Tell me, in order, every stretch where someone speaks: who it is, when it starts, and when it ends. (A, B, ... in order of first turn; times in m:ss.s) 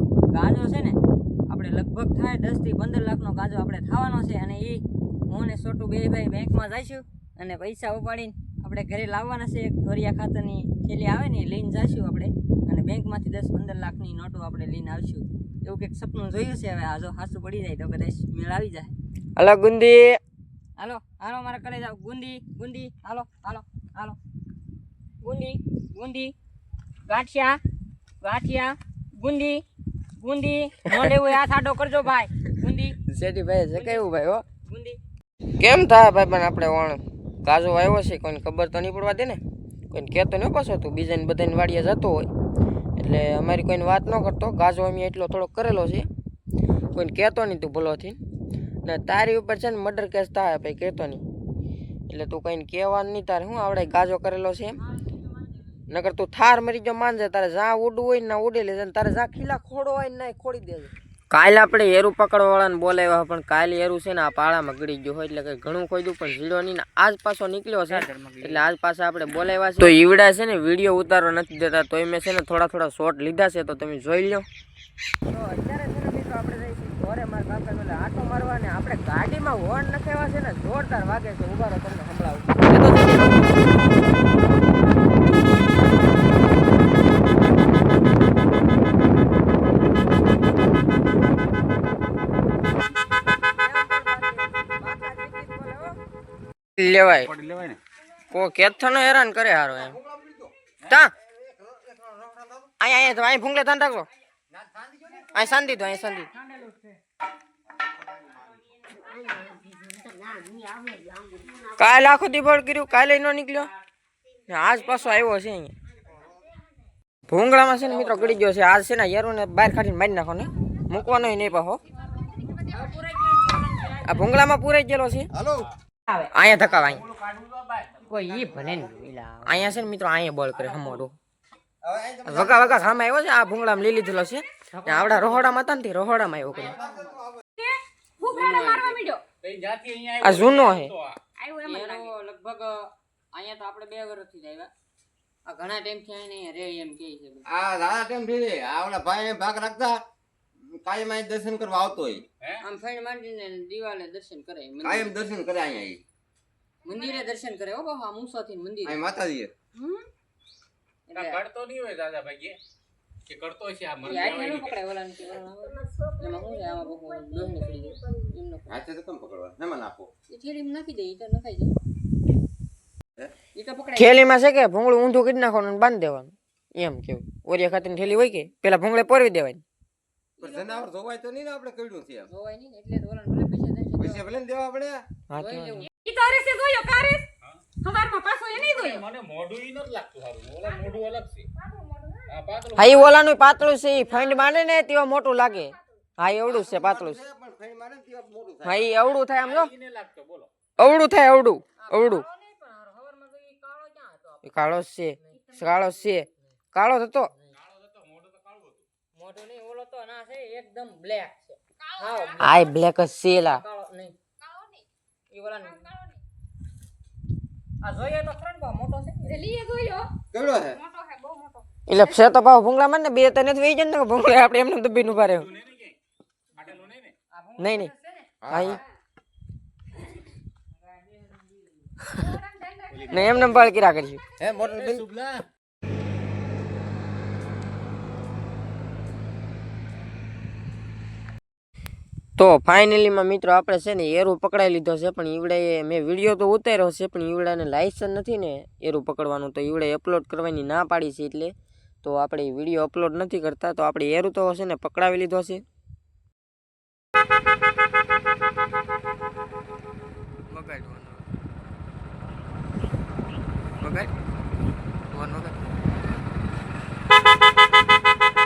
0:00.3-0:19.0 A
0:19.4-0:20.2 B
0:20.8-0:24.2 A
0:25.2-0:26.3 A
0:27.1-0:27.6 A
0:28.2-0:29.6 A
0:30.2-0:33.0 A
0:33.1-0:34.4 B
0:33.7-0:34.1 A
0:34.6-0:35.0 A
0:35.6-0:39.4 B
0:39.9-0:42.3 B
0:43.0-0:46.1 B
0:46.9-0:48.2 B
0:48.8-0:51.2 B
0:52.1-0:54.8 B
0:55.9-1:14.4 B
1:07.9-1:08.6 A
1:15.2-1:23.7 B
1:33.6-1:36.0 B
1:36.8-1:37.3 B
1:37.4-1:37.8 C
1:38.3-1:40.0 B
1:40.2-1:40.5 D
1:40.9-1:41.1 B
1:41.6-1:42.6 D
1:42.8-1:44.1 B
1:44.6-1:45.2 D
1:45.2-1:46.3 B
1:50.7-1:51.0 A
1:51.6-1:53.7 B
1:54.5-1:55.7 B
1:57.3-2:01.8 B
2:02.5-2:04.3 A
2:04.0-2:05.3 B
2:06.2-2:07.1 B
2:08.1-2:09.4 A
2:09.4-2:11.1 B
2:11.8-2:12.8 D
2:12.2-2:16.8 B
2:14.9-2:15.2 A
2:16.6-2:17.3 A
2:17.6-2:19.2 E
2:18.2-2:19.1 A
2:19.4-2:21.2 C
2:20.2-2:21.0 B
2:21.4-2:22.1 E
2:21.6-2:24.7 A
2:25.5-2:27.4 A
2:27.5-2:30.0 D
2:30.6-2:32.3 D
2:32.6-2:35.2 A
2:34.8-2:36.0 D
2:36.8-2:39.1 A
2:38.8-2:39.5 D
2:39.8-2:40.0 A
2:41.1-2:41.4 A
2:41.2-2:42.6 C
2:43.3-2:44.8 C
2:44.0-2:48.9 A
2:48.7-2:50.1 D
2:50.3-2:51.7 A
2:53.6-2:54.2 A
2:54.0-2:59.6 B
2:57.6-2:58.2 A
3:00.4-3:00.9 A
3:00.4-3:02.3 D
3:02.3-3:04.4 A
3:04.0-3:05.1 D
3:05.3-3:05.9 B
3:05.3-3:05.9 A
3:06.0-3:09.1 E
3:07.4-3:07.7 C
3:08.5-3:11.5 C
3:12.3-3:13.1 C
3:12.8-3:17.2 B
3:16.7-3:18.9 D
3:18.6-3:19.7 B
3:19.4-3:20.5 C
3:20.8-3:22.3 B
3:21.8-3:24.5 A
3:24.4-3:27.3 B
3:27.7-3:28.8 C
3:29.2-3:32.8 A
3:32.4-3:33.6 B
3:33.4-3:34.2 A
3:34.4-3:34.8 E
3:35.3-3:36.2 A
3:37.8-3:39.4 A
3:39.3-3:40.1 E
3:40.3-3:40.8 D
3:40.9-3:41.6 A
3:41.9-3:45.5 B
3:46.6-3:48.8 A
3:46.6-3:47.1 C
3:47.6-3:47.9 B
3:48.4-3:48.8 D
3:48.5-3:48.8 B
3:52.2-3:53.5 E
3:53.1-3:54.2 B
3:54.4-3:55.5 D
4:02.4-4:11.5 B
4:12.0-4:15.6 B
4:20.5-4:21.3 B
4:23.8-4:24.1 B
4:25.1-4:25.7 B